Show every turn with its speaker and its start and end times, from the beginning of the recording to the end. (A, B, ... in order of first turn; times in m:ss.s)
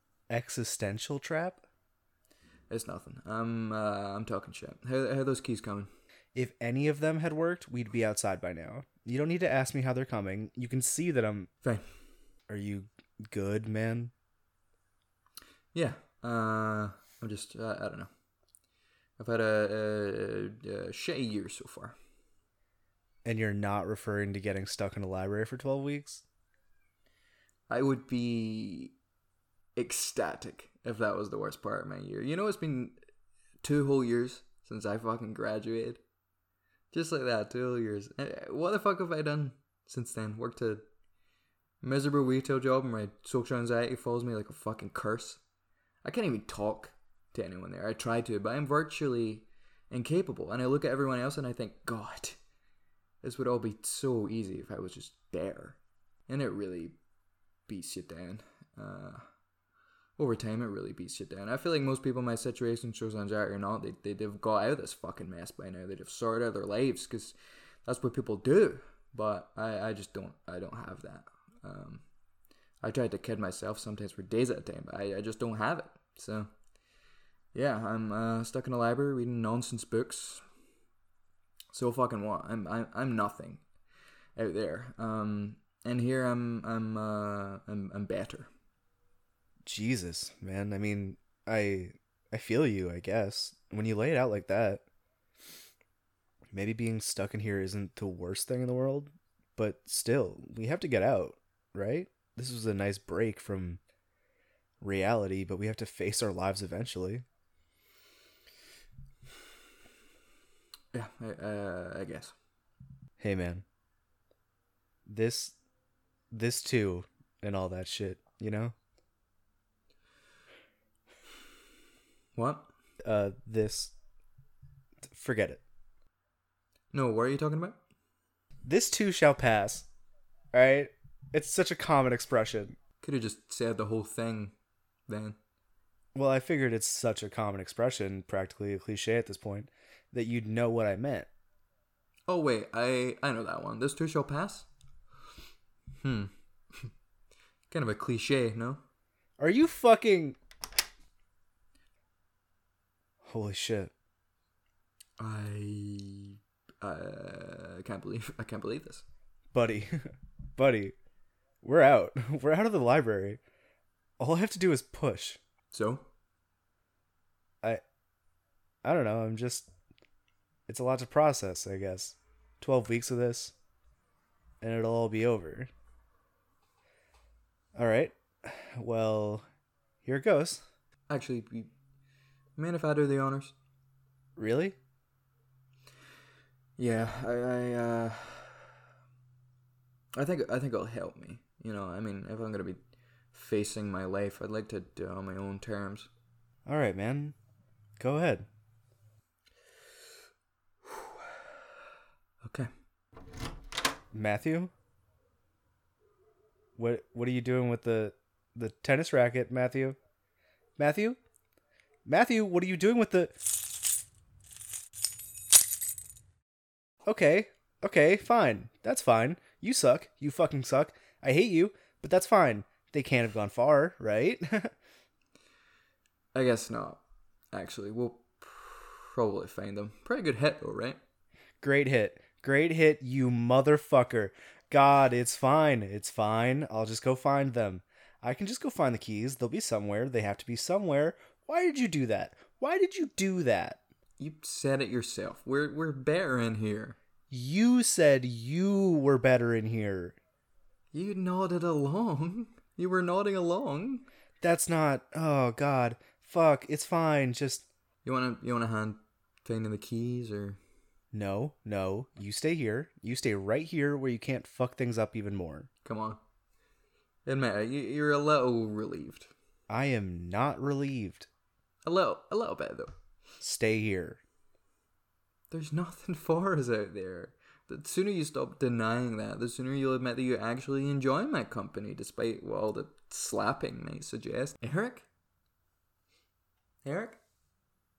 0:00.3-0:01.6 A
0:02.7-0:05.9 B
0:06.4-0:11.5 A
0:12.5-0:14.1 A
0:15.7-0:18.1 B
0:19.2-0:22.0 B
0:23.2-0:26.2 A
0:27.7-0:28.9 B
0:29.8-0:33.0 B
0:33.6-0:36.0 B
0:36.9-0:40.8 B
0:41.8-0:45.4 B
0:46.0-0:52.4 B
0:53.2-0:57.0 B
0:57.7-0:59.2 B
1:00.2-1:12.0 B
1:12.8-1:16.5 B
1:17.5-1:20.4 B
1:21.7-1:23.6 B
1:24.4-1:28.5 B
1:29.6-1:34.8 A
1:36.5-1:43.8 A
1:44.8-1:47.2 A
1:50.9-1:52.3 B
1:53.2-1:53.6 A
1:55.1-1:55.6 A
1:56.3-1:58.7 A
2:02.4-2:02.7 B
2:03.0-2:03.9 A
2:05.1-2:05.6 A
2:06.9-2:07.8 B
2:08.6-2:09.9 A
2:10.5-2:12.8 A
2:13.0-2:14.5 B
2:15.1-2:15.4 B
2:16.1-2:21.3 A
2:22.3-2:24.7 B
2:26.0-2:26.9 B
2:27.7-2:28.8 B
2:29.4-2:30.4 A
2:33.2-2:33.9 A
2:35.2-2:39.0 B
2:39.5-2:40.9 A
2:41.6-2:43.4 A
2:44.2-2:45.4 A
2:45.7-2:46.1 B
2:48.8-2:49.7 A
2:50.7-2:53.5 A
2:54.6-2:55.7 A
2:57.8-2:59.4 A
3:00.0-3:00.6 A
3:01.1-3:01.7 B
3:02.6-3:03.5 B
3:04.4-3:04.8 A
3:06.8-3:08.6 B
3:10.1-3:12.8 B
3:13.3-3:16.1 B
3:16.6-3:17.4 A
3:18.0-3:18.5 A
3:20.9-3:21.2 B
3:22.4-3:22.7 B
3:24.1-3:24.7 A
3:26.8-3:30.0 A
3:30.8-3:31.2 A
3:32.0-3:33.4 A
3:37.0-3:44.7 A
3:46.3-3:51.0 B
3:51.6-4:03.8 A
4:04.2-4:07.0 B
4:07.3-4:10.2 A
4:10.9-4:14.0 B
4:14.4-4:17.7 A
4:18.0-4:20.6 B
4:21.1-4:25.7 A
4:25.8-4:26.2 B
4:27.2-4:29.3 B
4:29.7-4:31.3 A
4:31.8-4:32.9 B
4:33.4-4:34.2 A
4:35.5-4:45.1 B
4:46.8-4:47.2 B